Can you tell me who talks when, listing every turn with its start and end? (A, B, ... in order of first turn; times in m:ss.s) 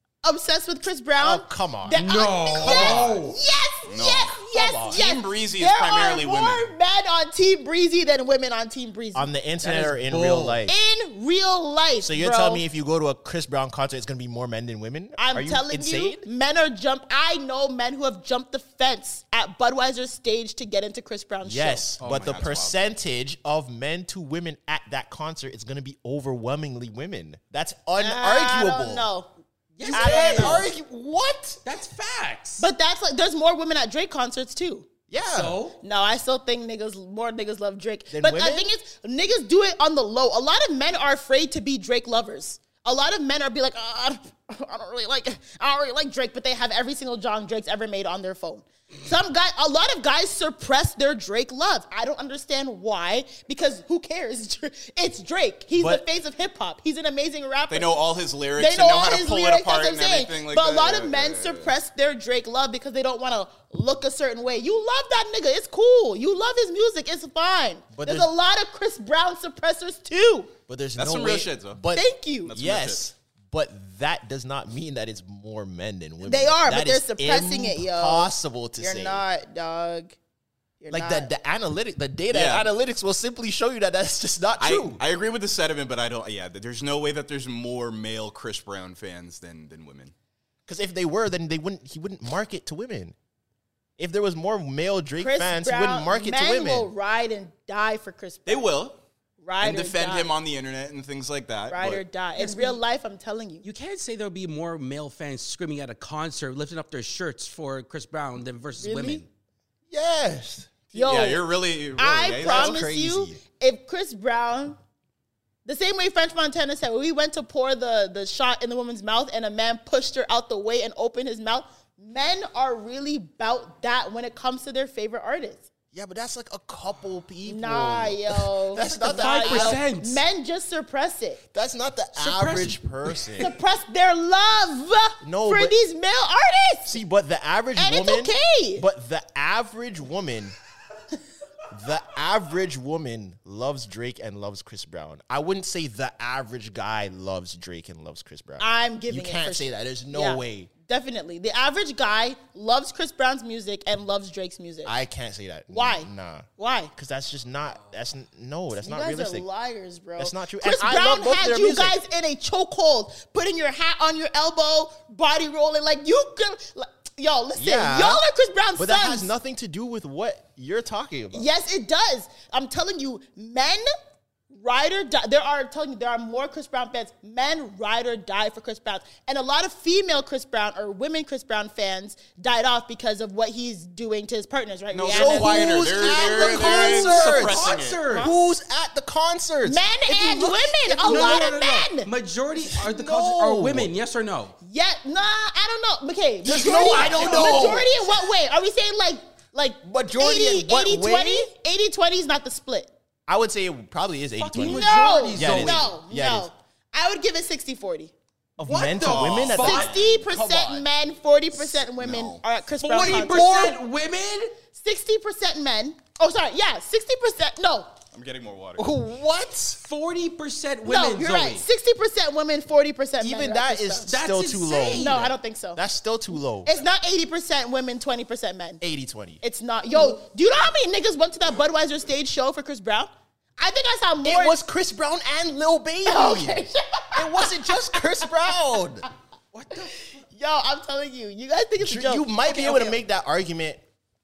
0:00.2-0:09.3 A
0:01.2-0:03.3 B
0:01.9-0:03.4 C
0:03.9-0:06.7 D
0:04.5-0:05.0 B
0:09.1-0:10.7 B
0:09.6-0:10.6 C
0:10.7-0:12.6 A
0:12.0-0:16.2 B
0:15.2-0:21.9 A
0:21.4-0:29.1 B
0:22.0-0:22.4 C
0:22.0-0:22.8 D
0:28.0-0:29.3 A
0:29.7-0:30.7 C
0:29.8-0:31.6 B
0:29.9-0:30.7 A
0:31.6-0:32.6 C
0:32.6-0:34.8 A
0:35.1-0:35.6 B
0:35.2-0:35.8 C
0:35.8-0:58.0 A
0:38.1-0:38.7 B
0:55.7-0:56.0 B
0:57.7-1:01.7 D
0:58.6-1:10.5 A
1:07.9-1:08.3 B
1:10.7-1:19.2 B
1:11.0-1:11.8 D
1:11.9-1:12.5 A
1:12.5-1:13.0 D
1:16.2-1:20.2 A
1:20.8-1:21.3 A
1:20.9-1:25.0 B
1:22.3-1:22.7 D
1:24.6-1:30.1 D
1:30.7-1:33.1 B
1:34.0-1:36.9 B
1:35.2-1:38.7 A
1:38.4-1:39.0 D
1:39.4-1:40.3 A
1:39.6-1:42.0 D
1:41.7-1:43.7 A
1:42.4-1:42.8 C
1:43.6-1:49.3 C
1:48.8-1:49.2 A
1:49.9-1:50.7 B
1:50.9-1:52.7 D
1:50.9-1:51.4 A
1:52.0-1:54.8 A
1:52.4-1:53.4 B
1:55.6-2:05.6 A
2:05.9-2:09.8 B
2:07.4-2:11.4 A
2:08.8-2:10.2 C
2:11.5-2:13.5 B
2:12.2-2:12.7 A
2:13.4-2:17.0 A
2:15.2-2:15.7 B
2:16.8-2:20.5 B
2:17.8-2:18.8 A
2:21.7-2:30.7 B
2:28.6-2:34.9 A
2:34.8-2:39.4 B
2:35.7-2:36.9 A
2:38.8-2:49.3 A
2:40.2-2:42.0 B
2:47.6-2:48.2 B
2:48.8-2:51.5 B
2:51.3-2:53.9 A
2:54.5-3:06.0 A
3:04.9-3:08.0 D
3:05.1-3:11.6 B
3:06.4-3:08.3 C
3:08.1-3:08.5 A
3:09.6-3:12.1 A
3:11.0-3:14.6 C
3:12.6-3:13.9 B
3:14.6-3:22.9 A
3:16.4-3:18.1 B
3:16.5-3:17.8 C
3:19.8-3:21.5 B
3:23.3-3:26.5 B
3:24.4-3:25.9 C
3:24.5-3:28.1 A
3:28.6-3:30.8 B
3:28.6-3:29.9 C
3:29.0-3:30.0 D
3:29.5-3:33.8 A
3:31.7-3:32.4 D
3:32.8-3:34.6 C
3:34.7-3:37.9 A
3:38.1-3:38.8 D
3:38.8-3:39.8 B
3:39.8-3:41.6 C
3:40.8-3:44.2 A
3:43.2-3:46.7 B
3:44.0-3:45.3 C
3:44.9-3:45.8 A
3:46.6-3:48.8 A
3:48.8-3:49.4 B
3:49.4-3:54.6 A
3:54.2-3:59.0 B
3:56.0-3:58.3 A
3:59.5-3:59.9 C
3:59.8-4:03.0 A
4:01.8-4:03.8 B